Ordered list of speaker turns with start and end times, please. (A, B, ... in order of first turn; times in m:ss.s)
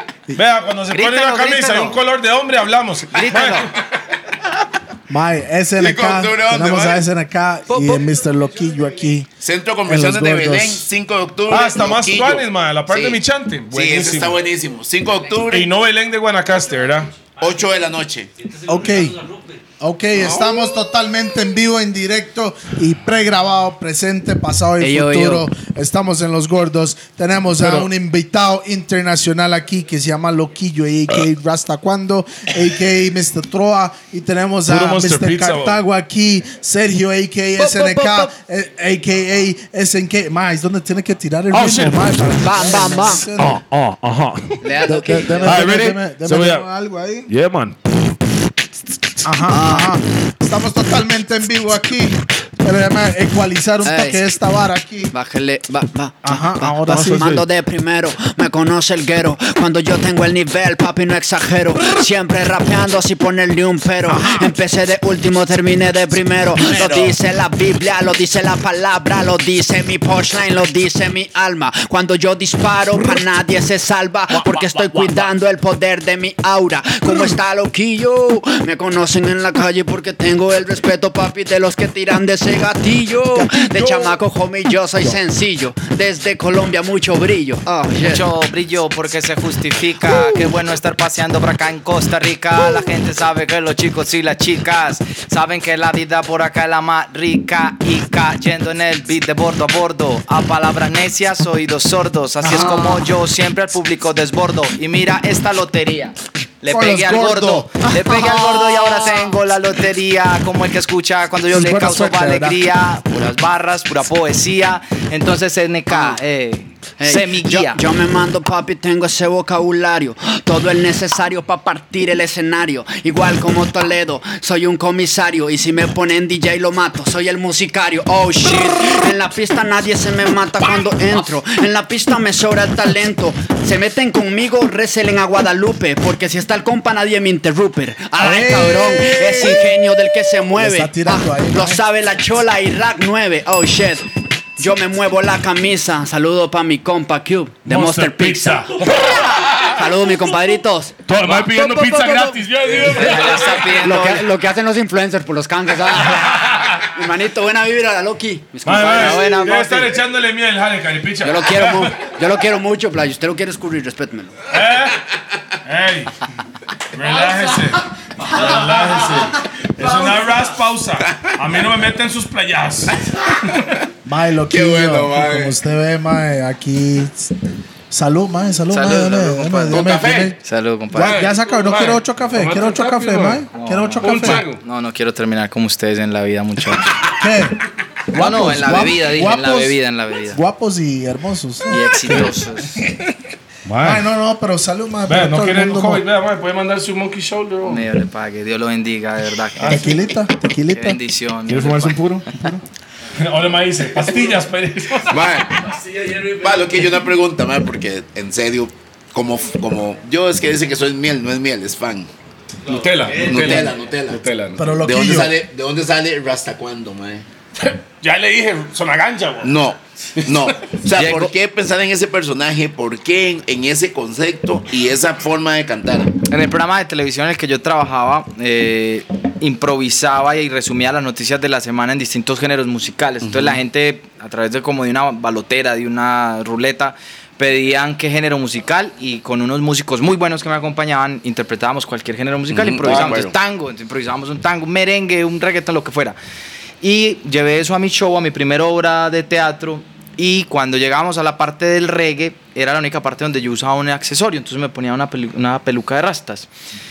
0:00.3-0:03.7 A
0:00.9-0:02.0 B
0:03.1-0:03.7 B
0:05.1-0:09.3 C
0:05.8-0:07.0 D
0:07.7-0:08.0 B
0:09.4-0:13.2 D
0:09.8-0:10.8 C
0:11.5-0:14.4 A
0:13.7-0:15.7 D
0:15.5-0:17.1 A
0:17.4-0:18.3 D
0:18.6-0:43.6 C
0:20.1-0:20.6 D
0:24.8-0:25.4 B
0:24.9-0:25.4 E
0:27.6-0:27.9 A
0:34.7-0:35.8 A
0:37.6-0:38.3 E
0:41.5-0:42.2 A
0:42.4-0:43.3 E
0:43.3-0:44.6 A
0:44.6-0:45.7 B
0:44.7-0:45.2 E
0:44.8-0:47.3 C
0:45.4-0:46.6 A
0:47.3-0:47.8 A
0:49.2-0:55.1 C
0:49.5-0:49.9 E
0:53.8-0:54.2 E
0:55.1-1:28.2 E
0:56.2-0:57.4 C
0:56.9-0:57.4 A
1:04.1-1:04.5 C
1:23.6-1:24.1 A
1:28.0-1:57.8 B
1:42.4-1:43.0 C
1:46.6-1:49.0 C
1:51.5-1:52.6 C
1:55.9-1:56.2 E
1:57.0-2:39.9 E
2:18.2-2:21.8 C
2:27.6-2:29.8 A
2:31.0-2:33.8 A
2:32.8-2:34.3 B
2:36.1-2:36.8 A
2:38.6-2:42.1 A
2:38.8-2:39.5 B
2:41.2-2:44.3 E
2:44.5-2:45.0 A
2:45.6-2:46.2 A
2:46.9-2:53.6 A
2:54.0-2:57.4 C
2:54.5-2:55.6 D
2:57.9-3:00.4 C
2:58.7-3:01.3 B
2:59.7-3:00.4 D
3:00.9-3:04.4 C
3:00.9-3:03.4 A
3:03.5-3:06.9 B
3:04.0-3:04.6 A
3:07.1-3:09.8 C
3:08.1-3:10.4 B
3:10.3-3:12.4 C
3:11.7-3:12.8 B
3:13.6-3:14.0 A
3:13.8-3:16.0 C
3:15.1-3:17.8 A
3:17.6-3:20.0 B
3:19.6-3:20.0 A
3:19.6-3:21.0 C
3:20.6-3:22.4 B
3:21.5-3:22.3 A
3:22.3-3:22.6 C
3:23.1-3:25.4 A
3:25.1-3:32.1 D
3:32.6-3:34.7 A
3:33.2-3:34.2 D
3:34.6-3:35.4 C
3:34.8-3:37.2 D
3:37.6-3:39.6 A
3:39.4-3:46.1 D
3:40.1-3:40.6 A
3:40.9-3:41.3 B
3:46.3-4:06.2 B
3:53.2-3:53.6 D
4:02.5-4:03.3 D
4:02.8-4:03.3 A
4:06.8-4:16.5 B